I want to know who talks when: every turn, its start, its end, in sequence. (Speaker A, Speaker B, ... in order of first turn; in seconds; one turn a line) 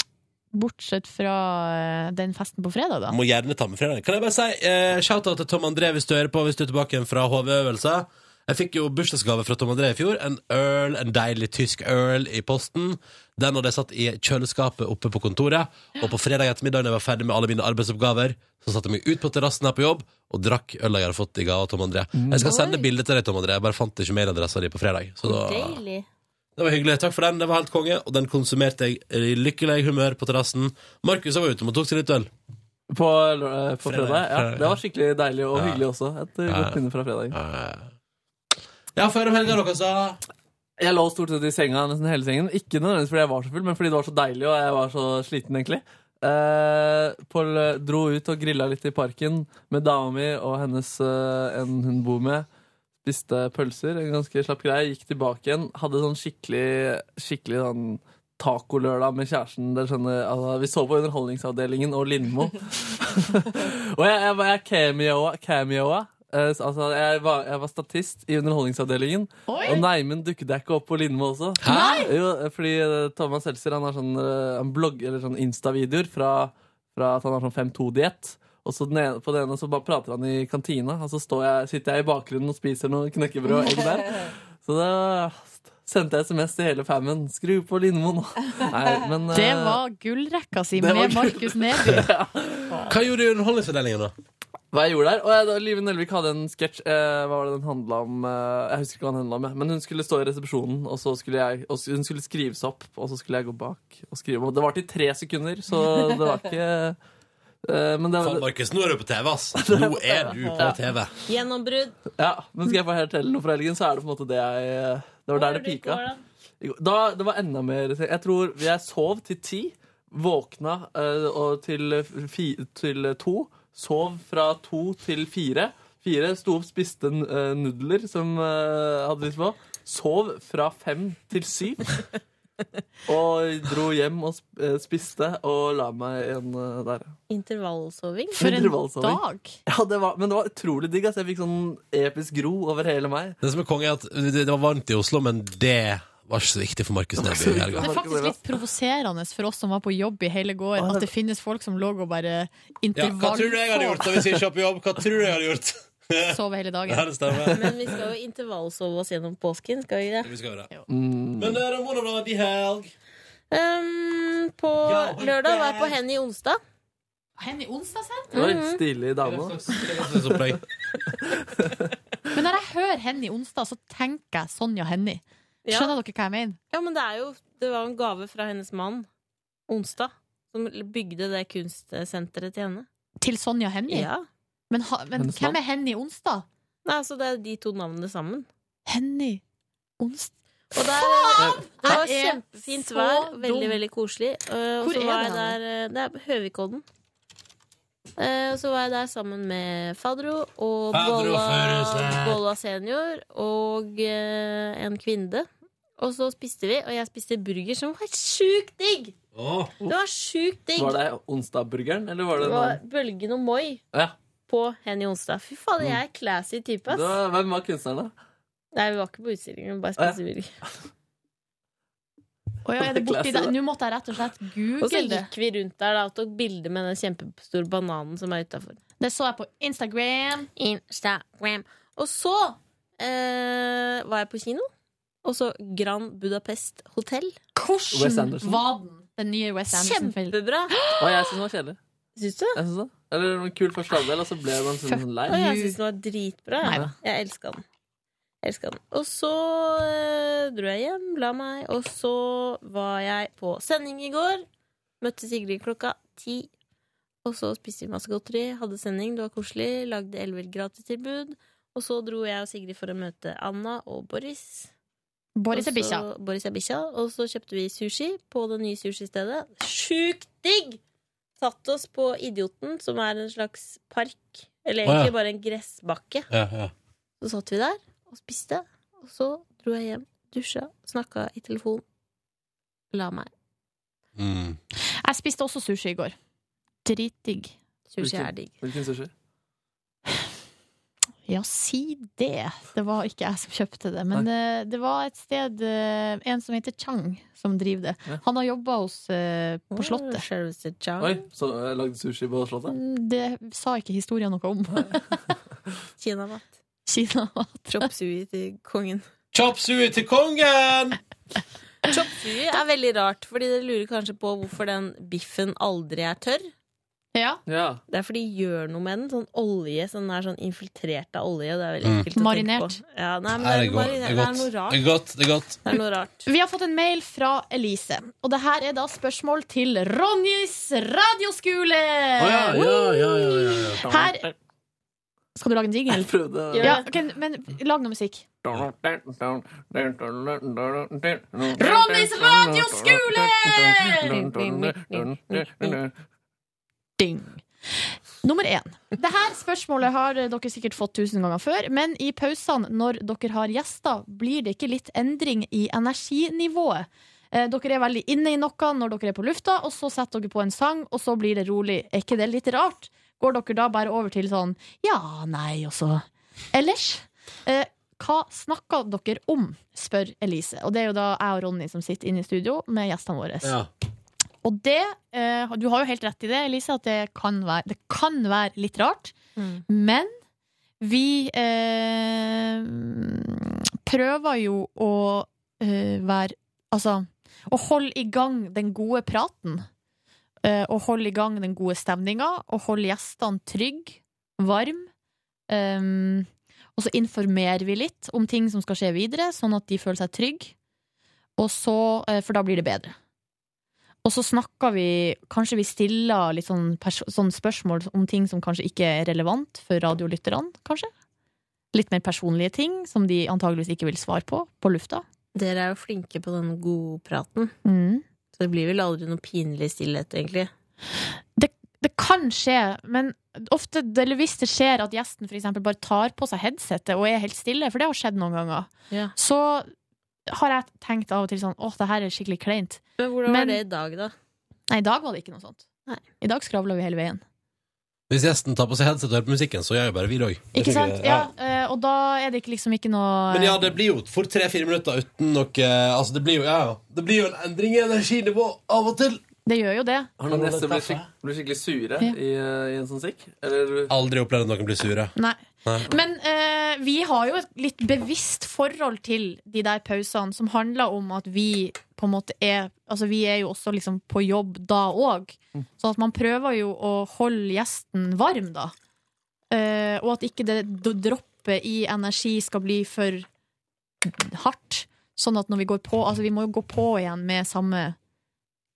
Speaker A: 0.5-3.1
Speaker B: 3.1-25.8
Speaker C: 22.1-22.5
Speaker D: 22.5-22.9
Speaker D: 25.2-26.1
Speaker B: 26.6-32.3
Speaker C: 32.9-37.4
Speaker B: 33.8-34.8
Speaker B: 35.5-35.8
Speaker B: 36.5-36.8
Speaker B: 37.3-37.9
Speaker B: 39.0-40.2
Speaker C: 40.8-52.5
Speaker C: 53.0-89.8
Speaker A: 69.5-69.8
Speaker B: 71.6-72.0
Speaker A: 71.6-72.1
Speaker A: 89.3-92.1
Speaker C: 90.8-92.9
Speaker B: 92.9-94.1
Speaker C: 94.7-107.0
Speaker C: 107.6-108.5
Speaker B: 108.2-111.1
Speaker C: 109.6-109.9
Speaker D: 110.0-112.0
Speaker C: 112.2-116.0
Speaker D: 115.3-116.2
Speaker C: 116.6-132.0
Speaker C: 133.1-137.1
Speaker D: 137.3-138.4
Speaker C: 138.3-143.4
Speaker A: 138.3-139.6
Speaker B: 143.4-147.9
Speaker C: 147.2-148.4
Speaker A: 147.8-154.4
Speaker C: 150.8-151.1
Speaker B: 152.9-157.7
Speaker A: 156.3-157.1
Speaker D: 157.5-160.3
Speaker B: 160.2-160.7
Speaker C: 160.9-161.6
Speaker B: 161.4-162.9
Speaker D: 163.5-166.6
Speaker B: 164.8-165.9
Speaker A: 167.4-168.3
Speaker D: 168.3-168.8
Speaker C: 168.3-169.6
Speaker B: 169.2-170.6
Speaker A: 172.3-176.6
Speaker D: 175.6-175.9
Speaker D: 176.7-179.1
Speaker D: 179.7-182.9
Speaker A: 183.2-184.1
Speaker D: 183.9-184.2
Speaker A: 184.7-186.4
Speaker C: 185.2-185.6
Speaker D: 186.8-188.5
Speaker A: 188.9-189.4
Speaker A: 190.0-193.8
Speaker D: 190.7-196.8
Speaker C: 191.4-191.6
Speaker A: 194.8-195.6
Speaker D: 198.2-205.5
Speaker B: 200.9-202.4
Speaker D: 206.0-209.2
Speaker B: 209.3-209.7
Speaker D: 209.8-211.0
Speaker C: 210.8-212.8
Speaker D: 212.4-213.8
Speaker D: 214.5-217.2
Speaker C: 216.9-218.1
Speaker D: 218.7-220.5
Speaker A: 222.6-225.3
Speaker C: 222.8-223.5
Speaker D: 224.8-228.8
Speaker A: 229.0-230.5
Speaker D: 230.6-234.7
Speaker D: 235.2-237.3
Speaker A: 237.5-241.1
Speaker C: 237.9-238.6
Speaker D: 239.7-240.8
Speaker C: 241.0-241.8
Speaker D: 242.2-242.6
Speaker C: 242.6-245.4
Speaker A: 244.8-245.8
Speaker D: 245.3-247.6
Speaker A: 246.6-246.9
Speaker D: 248.4-254.4
Speaker D: 255.0-256.5
Speaker D: 257.2-264.7
Speaker A: 265.4-266.1
Speaker D: 265.5-270.8
Speaker D: 271.4-276.3
Speaker B: 274.9-275.1
Speaker B: 276.3-276.7
Speaker D: 277.2-281.8
Speaker D: 282.9-283.3
Speaker B: 284.1-284.6
Speaker A: 285.0-286.1
Speaker A: 286.8-287.5
Speaker D: 287.9-288.6
Speaker C: 288.0-289.1
Speaker A: 291.3-300.2
Speaker D: 299.7-301.2
Speaker C: 301.0-302.7
Speaker A: 302.7-305.3
Speaker D: 306.0-306.5
Speaker A: 306.9-307.9
Speaker D: 307.7-309.1
Speaker B: 309.3-311.0
Speaker D: 311.8-316.5
Speaker A: 317.1-317.4
Speaker C: 317.5-317.8
Speaker D: 317.9-324.8
Speaker A: 322.1-322.8
Speaker B: 323.4-325.6
Speaker D: 325.6-326.2
Speaker A: 326.2-334.3
Speaker B: 332.2-333.8
Speaker C: 333.8-334.1
Speaker A: 335.3-338.2
Speaker C: 335.9-336.8
Speaker D: 336.5-336.9
Speaker C: 338.4-345.9
Speaker A: 341.6-344.1
Speaker D: 344.1-345.8
Speaker A: 347.0-373.6
Speaker B: 373.4-373.7
Speaker A: 374.4-379.1
Speaker D: 379.4-379.6
Speaker A: 379.7-380.1
Speaker A: 380.8-389.6
Speaker A: 390.4-394.9
Speaker A: 395.5-400.5
Speaker A: 401.4-402.9
Speaker A: 404.0-410.9
Speaker A: 411.7-415.0
Speaker D: 415.3-417.5
Speaker A: 417.6-418.0
Speaker D: 418.3-420.5
Speaker A: 421.4-429.7
Speaker A: 430.3-433.6
Speaker D: 433.0-434.1
Speaker A: 434.7-435.7
Speaker A: 436.2-437.2
Speaker B: 438.1-441.3
Speaker A: 440.5-443.6
Speaker B: 443.3-449.2
Speaker A: 449.4-450.1
Speaker C: 450.2-453.9
Speaker B: 450.2-451.1
Speaker B: 453.9-455.1
Speaker A: 455.2-468.7
Speaker A: 469.5-473.3
Speaker A: 474.0-478.0